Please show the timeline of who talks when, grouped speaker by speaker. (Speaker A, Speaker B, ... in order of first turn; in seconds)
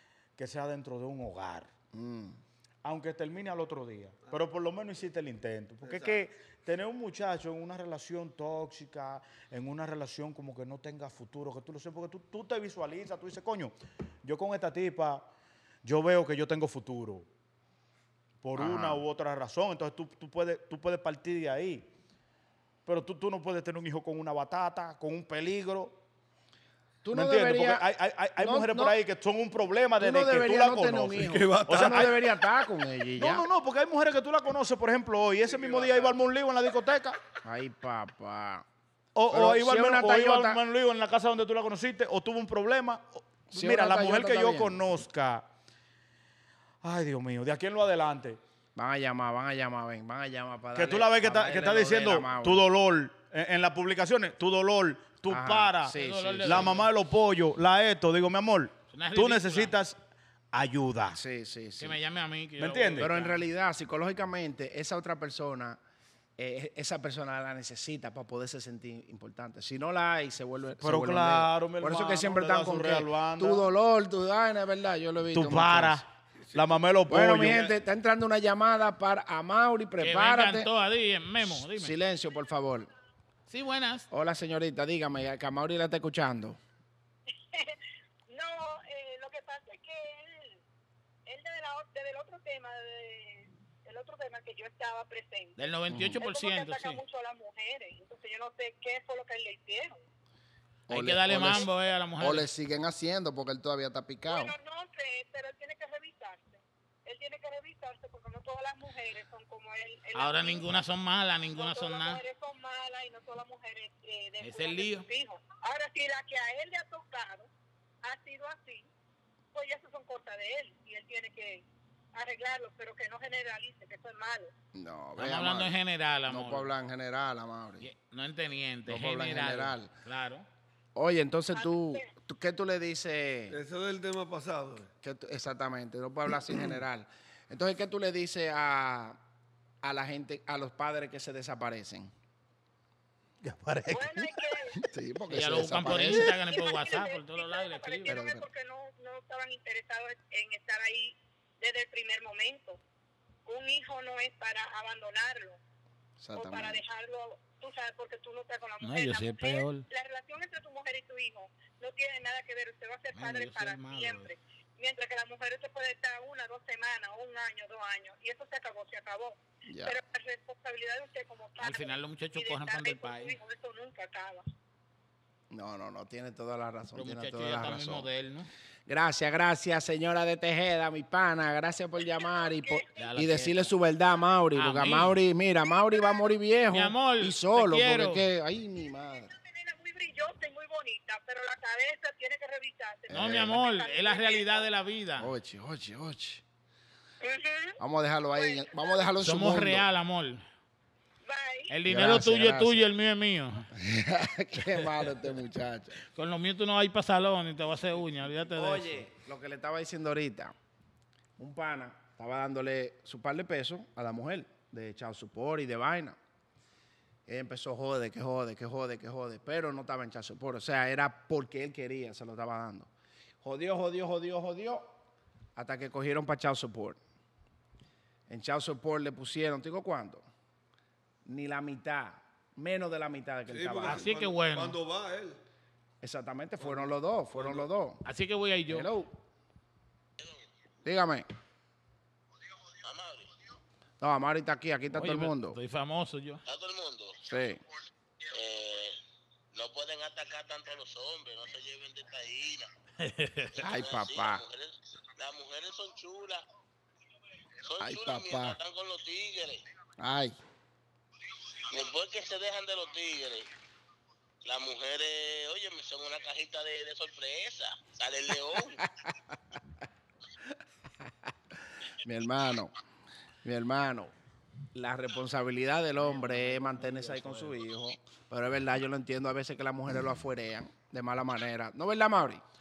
Speaker A: 0.4-1.7, 2.8-15.3, 15.8-17.3, 18.4-21.9, 22.9-26.0, 27.1-32.2, 33.2-37.2, 39.1-45.5, 46.8-48.4, 50.7-60.0, 60.5-61.2, 62.6-63.1, 70.8-73.7, 75.3-77.7, 143.4-144.4
Speaker B: 1.9-2.4, 18.6-19.0, 27.0-27.9, 28.4-28.9, 30.0-33.5, 37.4-38.6, 39.3-40.6, 43.5-44.8, 48.8-52.6, 55.3-56.8, 61.1-62.0, 63.0-65.8, 66.4-76.0, 77.1-80.7, 81.4-82.9, 84.1-86.6, 95.9-96.2, 100.9-101.7, 102.2-104.5, 124.7-125.8, 126.3-127.9, 128.9-129.9, 130.9-133.6, 135.0-139.2, 139.8-142.1, 144.8-146.3, 148.1-148.5, 156.2-156.8, 169.7-170.0, 175.5-178.1, 178.9-189.3, 193.1-193.6, 195.2-196.4, 197.8-199.9, 201.9-202.8, 203.8-206.0, 208.5-210.5, 211.4-216.2, 217.3-222.9, 223.4-224.9, 225.6-227.0, 228.3-230.2, 231.3-234.1, 236.0-238.0, 238.7-239.2, 240.8-241.3, 244.0-245.6, 247.3-247.6, 253.6-254.4, 257.8-258.6, 260.0-260.4, 272.0-272.7, 273.4-274.1, 274.7-282.4
Speaker C: 5.8-6.2, 31.1-32.3, 35.5-36.2, 133.5-134.9, 233.5-235.4, 236.6-237.7
Speaker D: 55.9-56.9, 58.9-59.8, 61.8-63.4, 80.0-81.9, 83.5-84.1, 95.6-97.0, 100.9-102.5, 110.2-112.2, 114.4-115.1, 125.2-126.7, 127.8-130.5, 145.3-148.2, 158.8-159.9, 163.1-164.3, 171.6-173.3, 177.0-178.5, 183.0-183.7, 184.5-185.2, 186.7-188.3, 193.1-195.3, 199.2-200.4, 201.7-203.7, 206.1-209.0, 233.8-234.8, 238.1-238.9, 244.9-246.4, 253.0-253.6, 276.0-277.6
Speaker E: 87.5-87.8, 88.3-90.6, 91.3-95.6, 96.2-100.0, 104.3-110.7, 111.5-117.5, 118.0-118.9, 119.5-124.5, 131.5-132.1, 143.9-144.8, 145.9-152.8, 153.5-155.6, 156.3-174.4, 182.0-183.1, 185.9-186.3, 189.3-194.7, 197.2-197.8, 198.4-199.1, 201.2-201.7
Speaker F: 240.2-240.4, 242.8-243.3, 246.5-247.2, 248.3-249.0, 249.5-252.7, 253.6-256.4, 257.6-259.6, 261.7-263.5, 264.4-268.8